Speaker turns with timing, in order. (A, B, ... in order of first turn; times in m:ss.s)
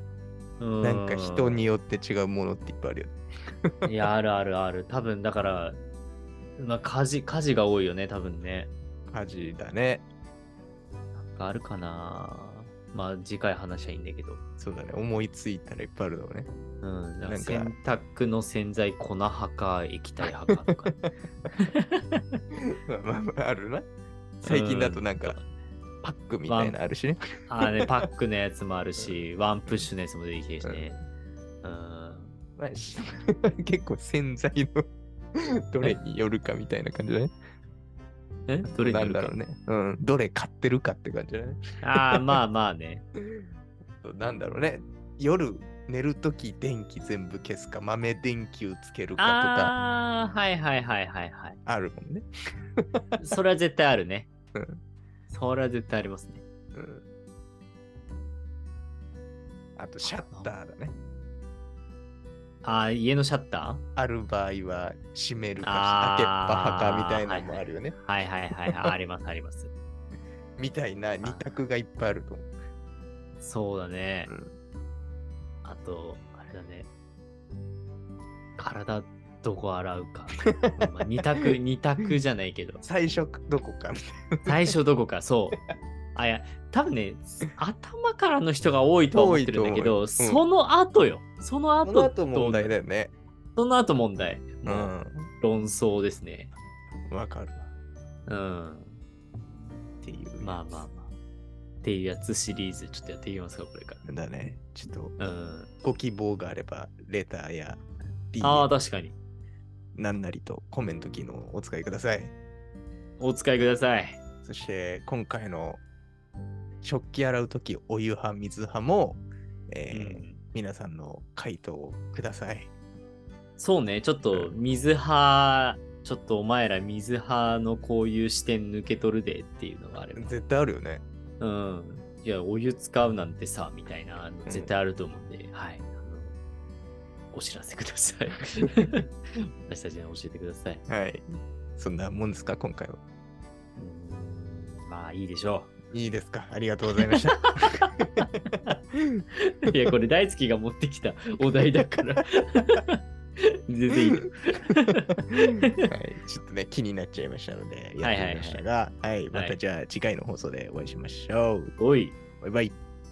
0:00.6-0:01.7 A
0:00.8-0:03.9 B
0:03.8-0:05.8 A
0:06.6-0:08.7 A
0:09.1-0:10.0 B
0:11.2-0:14.4 A
0:14.6-0:16.5 B
0:16.8-0:21.0 A
0:17.3-0:17.7 B
0:20.8-0:21.0 B
0:21.6-0:22.4 A
0:22.9-0:23.8 B
0:24.4-0:25.5 A
0:24.4-0:25.4 B
0:26.0-0:27.2 B
0:26.5-0:26.8 A
0:27.5-0:31.0 A
0:29.0-0:29.9 B
0:30.6-0:30.9 B
0:31.6-0:32.4 A
0:32.6-0:37.3 B
0:38.5-0:39.4 A
0:38.6-0:42.4 B
0:41.8-0:43.0 A
0:44.0-0:49.7 B
0:49.2-0:51.6 A
0:51.7-0:52.3 B
0:53.2-0:54.3 A
0:54.6-0:54.8 B
0:55.3-0:56.4 A
0:56.7-0:57.0 B
0:59.8-1:00.9 B
1:00.1-1:00.5 A
1:02.6-1:03.8 A
1:04.0-1:08.0 B
1:05.6-1:09.7 A
1:10.6-1:12.5 B
1:11.2-1:11.5 A
1:13.4-1:14.3 A
1:15.6-1:16.9 A
1:18.6-1:22.8 A
1:20.6-1:20.9 B
1:22.8-1:24.6 B
1:24.5-1:25.6 A
1:26.2-1:32.8 A
1:29.1-1:30.4 B
1:31.8-1:33.1 B
1:33.6-1:36.5 A
1:34.7-1:35.3 B
1:37.1-1:37.7 B
1:38.3-1:39.0 A
1:40.0-1:40.9 B
1:40.4-1:41.1 A
1:41.8-1:44.0 A
1:44.0-1:45.2 B
1:45.2-1:45.7 A
1:45.8-1:47.8 B
1:48.3-1:48.7 B
1:48.4-1:49.2 A
1:50.0-1:52.3 B
1:53.2-1:54.2 A
1:54.4-1:55.8 B
1:56.8-2:02.7 B
1:59.9-2:00.4 A
2:03.6-2:10.3 A
2:04.3-2:04.6 B
2:10.2-2:11.0 B
2:11.4-2:16.4 A
2:14.5-2:14.7 B
2:17.3-2:20.8 A
2:20.9-2:23.0 B
2:23.8-2:25.9 A
2:25.9-2:28.0 B
2:27.0-2:28.7 A
2:29.0-2:29.2 B
2:29.4-2:33.0 A
2:33.7-2:35.7 A
2:35.9-2:41.8 B
2:38.0-2:38.6 A
2:41.8-2:42.2 A
2:42.4-2:42.7 B